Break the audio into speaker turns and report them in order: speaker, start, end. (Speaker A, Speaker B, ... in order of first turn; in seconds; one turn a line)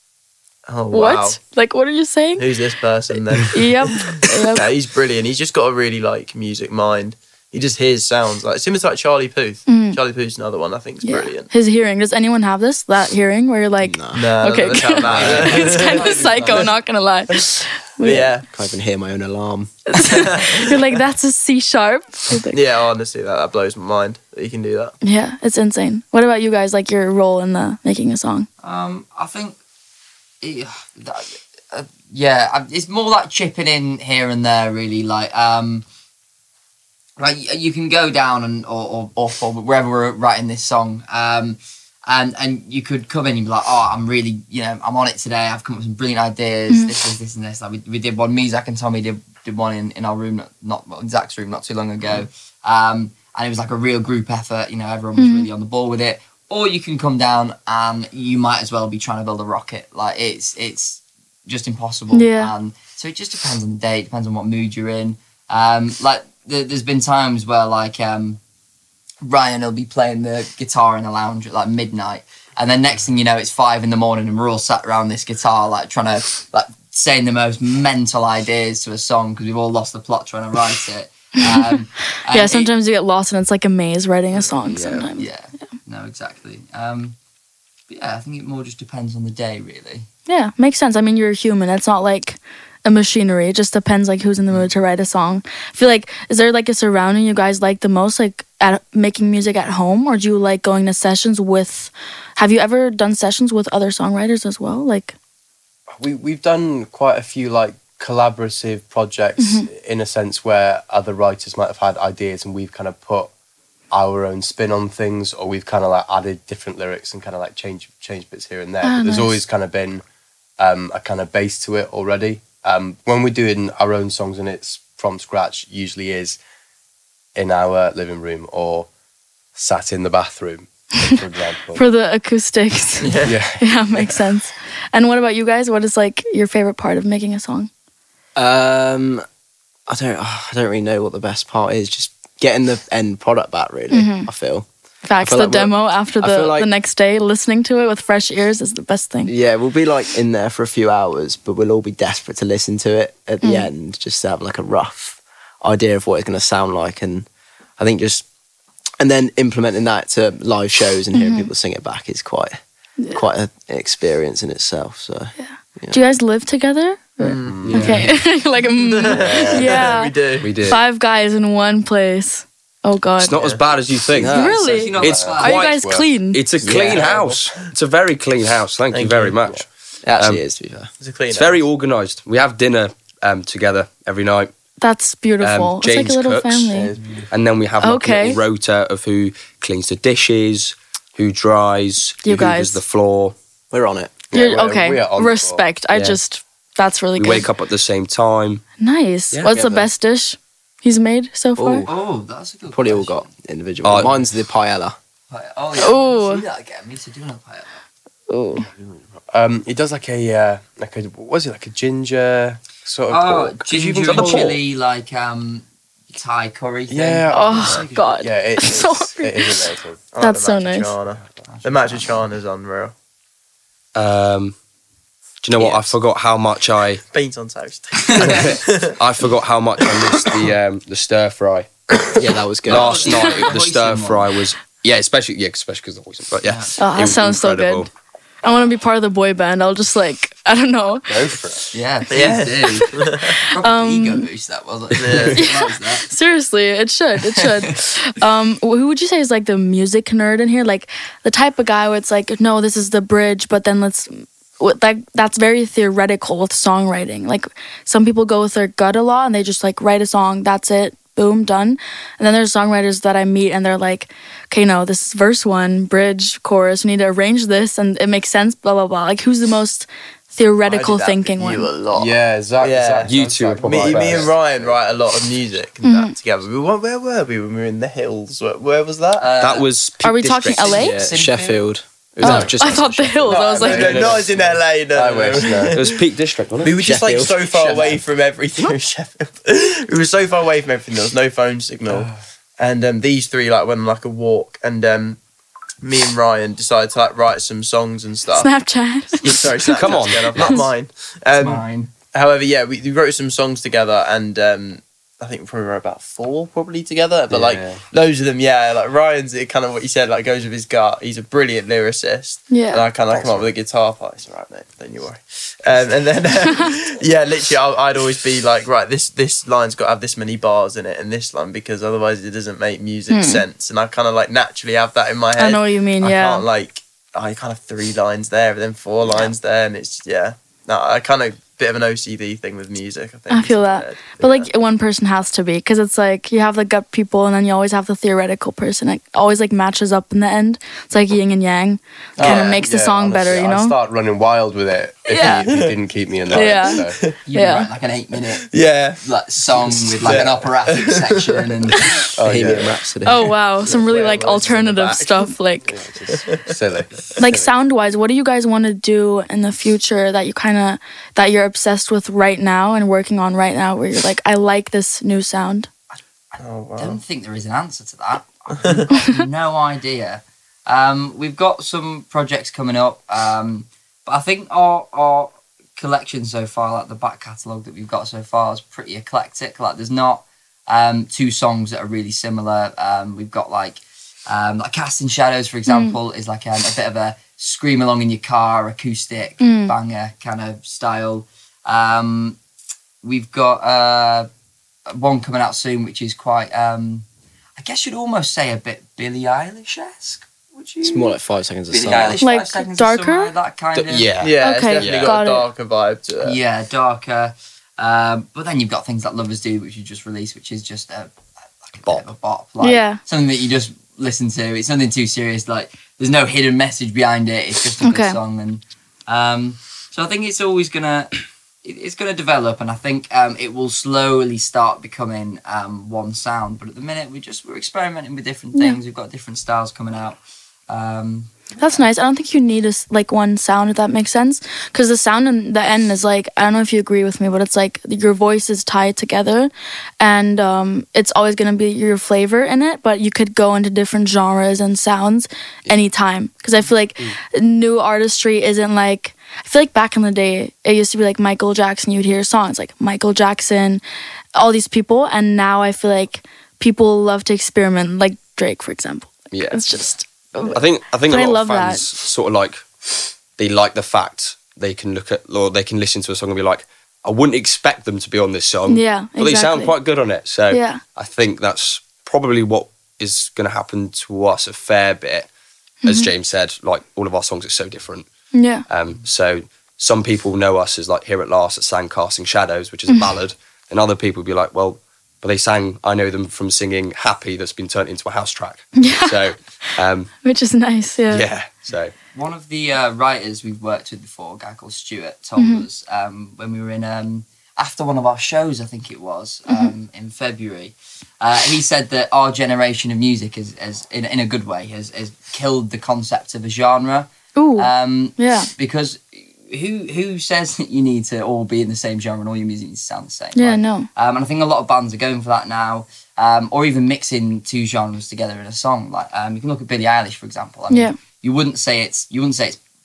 Speaker A: 0.7-1.4
Speaker B: 0.9-2.5
Speaker A: 2.4-11.5
Speaker B: 3.5-4.7
Speaker B: 9.7-10.0
Speaker B: 11.0-18.3
Speaker C: 13.8-14.3
Speaker A: 14.1-16.7
Speaker D: 15.2-15.7
Speaker A: 18.0-18.5
Speaker C: 18.5-19.7
Speaker B: 19.9-22.6
Speaker A: 20.0-20.9
Speaker A: 22.5-25.0
Speaker B: 25.0-28.5
Speaker E: 28.6-29.6
Speaker E: 30.4-35.9
Speaker E: 37.2-68.4
Speaker B: 55.2-55.5
Speaker B: 62.1-62.5
Speaker E: 69.2-82.7
Speaker B: 82.2-85.3
Speaker C: 84.6-85.1
Speaker E: 85.2-87.2
Speaker E: 87.9-90.1
Speaker B: 90.3-105.2
Speaker D: 105.9-113.3
Speaker B: 109.4-109.7
Speaker D: 113.9-120.0
Speaker B: 118.8-119.4
Speaker D: 120.6-126.4
Speaker D: 127.3-128.9
Speaker D: 129.6-131.8
Speaker B: 131.7-137.7
Speaker A: 133.0-133.4
Speaker D: 133.2-134.2
Speaker C: 138.4-139.2
Speaker C: 139.9-144.7
Speaker B: 143.9-144.3
Speaker B: 145.0-149.3
Speaker C: 145.2-146.7
Speaker C: 149.3-157.3
Speaker B: 153.4-153.7
Speaker C: 157.8-158.2
Speaker C: 159.0-162.6
Speaker B: 161.1-161.5
Speaker B: 163.0-163.2
Speaker C: 163.1-166.0
Speaker B: 165.4-173.4
Speaker A: 167.2-167.9
Speaker D: 167.4-168.0
Speaker A: 168.8-170.6
Speaker D: 169.1-169.9
Speaker F: 170.4-170.8
Speaker F: 173.2-180.4
Speaker C: 174.2-174.7
Speaker B: 174.2-176.4
Speaker E: 174.5-175.6
Speaker D: 175.0-176.0
Speaker C: 176.6-177.2
Speaker A: 176.9-177.7
Speaker A: 178.9-179.3
Speaker C: 180.0-180.9
Speaker A: 181.0-181.6
Speaker F: 181.3-184.5
Speaker B: 184.8-186.9
Speaker F: 185.4-193.3
Speaker D: 186.7-187.0
Speaker B: 187.8-188.4
Speaker B: 192.2-192.8
Speaker C: 193.7-194.2
Speaker D: 194.3-195.7
Speaker B: 194.3-197.5
Speaker F: 195.9-196.2
Speaker F: 197.2-198.6
Speaker B: 198.8-201.9
Speaker C: 199.5-199.9
Speaker C: 201.6-202.0
Speaker E: 201.9-203.3
Speaker C: 202.7-204.9
Speaker F: 203.8-204.2
Speaker E: 205.3-207.7
Speaker B: 205.8-206.4
Speaker B: 208.3-208.7
Speaker D: 209.3-214.6
Speaker E: 213.1-217.3
Speaker F: 214.2-214.4
Speaker D: 216.9-220.0
Speaker B: 217.3-219.7
Speaker A: 220.1-222.9
Speaker B: 220.2-220.9
Speaker E: 221.4-222.2
Speaker F: 223.9-224.6
Speaker F: 225.4-227.0
Speaker C: 225.6-225.9
Speaker A: 227.1-229.0
Speaker E: 228.1-228.5
Speaker F: 228.2-231.7
Speaker C: 232.2-233.1
Speaker F: 232.7-237.9
Speaker E: 232.7-234.3
Speaker B: 233.2-233.5
Speaker E: 236.5-236.7
Speaker B: 236.8-237.9
Speaker B: 238.4-241.2
Speaker D: 241.1-241.7
Speaker E: 241.7-246.1
Speaker A: 242.1-243.3
Speaker B: 242.7-244.3
Speaker A: 245.0-245.4
Speaker B: 245.3-271.7
Speaker E: 247.3-247.7
Speaker A: 270.7-279.3
Speaker D: 271.9-274.8
Speaker F: 273.1-274.3
Speaker B: 275.8-276.1
Speaker E: 279.2-279.7
Speaker F: 279.4-280.8
Speaker B: 280.0-281.0
Speaker E: 280.6-281.6
Speaker C: 280.8-283.4
Speaker B: 282.2-284.1
Speaker F: 282.2-282.5
Speaker A: 283.3-286.0
Speaker D: 283.4-285.8
Speaker F: 283.7-284.2
Speaker F: 285.7-286.8
Speaker A: 286.6-295.2
Speaker C: 286.8-287.9
Speaker D: 287.6-288.0
Speaker A: 295.8-298.5
Speaker B: 298.4-300.7
Speaker A: 299.2-334.5
Speaker F: 299.7-300.7
Speaker E: 301.4-301.9
Speaker D: 307.3-307.8
Speaker B: 312.5-312.9
Speaker D: 313.1-313.5
Speaker B: 323.1-323.4
Speaker B: 325.4-326.5
Speaker B: 333.3-343.8
Speaker A: 342.2-342.6
Speaker D: 342.2-347.0
Speaker B: 345.1-345.5
Speaker A: 345.2-345.8
Speaker A: 346.3-347.2
Speaker B: 346.3-347.7
Speaker E: 347.3-351.9
Speaker A: 348.3-349.0
Speaker A: 349.6-351.8
Speaker D: 352.2-352.8
Speaker C: 352.2-353.3
Speaker B: 353.1-355.8
Speaker A: 353.6-355.3
Speaker D: 355.7-357.5
Speaker A: 356.1-356.6
Speaker B: 357.2-365.7
Speaker E: 366.3-392.4
Speaker A: 366.4-367.0
Speaker A: 368.5-368.9
Speaker B: 368.9-369.2
Speaker B: 385.7-386.0
Speaker B: 389.4-389.8
Speaker E: 393.0-394.3
Speaker E: 394.9-397.1
Speaker E: 397.6-401.2
Speaker C: 400.8-402.2
Speaker E: 401.7-404.1
Speaker B: 402.2-403.3
Speaker F: 403.8-405.2
Speaker A: 404.2-406.4
Speaker B: 404.4-405.5
Speaker E: 406.2-431.8
Speaker B: 412.6-413.0
Speaker B: 417.8-418.2
Speaker B: 431.6-453.8
Speaker B: 454.4-461.8
Speaker F: 459.3-459.6
Speaker F: 460.5-475.3
Speaker B: 468.7-469.8
Speaker B: 470.5-470.8
Speaker B: 475.8-476.1
Speaker F: 475.9-478.1
Speaker B: 478.3-478.6
Speaker F: 478.7-490.1
Speaker B: 488.8-489.3
Speaker B: 490.2-491.3
Speaker F: 491.1-491.9
Speaker E: 492.1-522.6
Speaker B: 495.4-495.7
Speaker B: 499.5-499.7
Speaker B: 507.4-508.5
Speaker B: 513.4-513.9
Speaker B: 520.7-521.0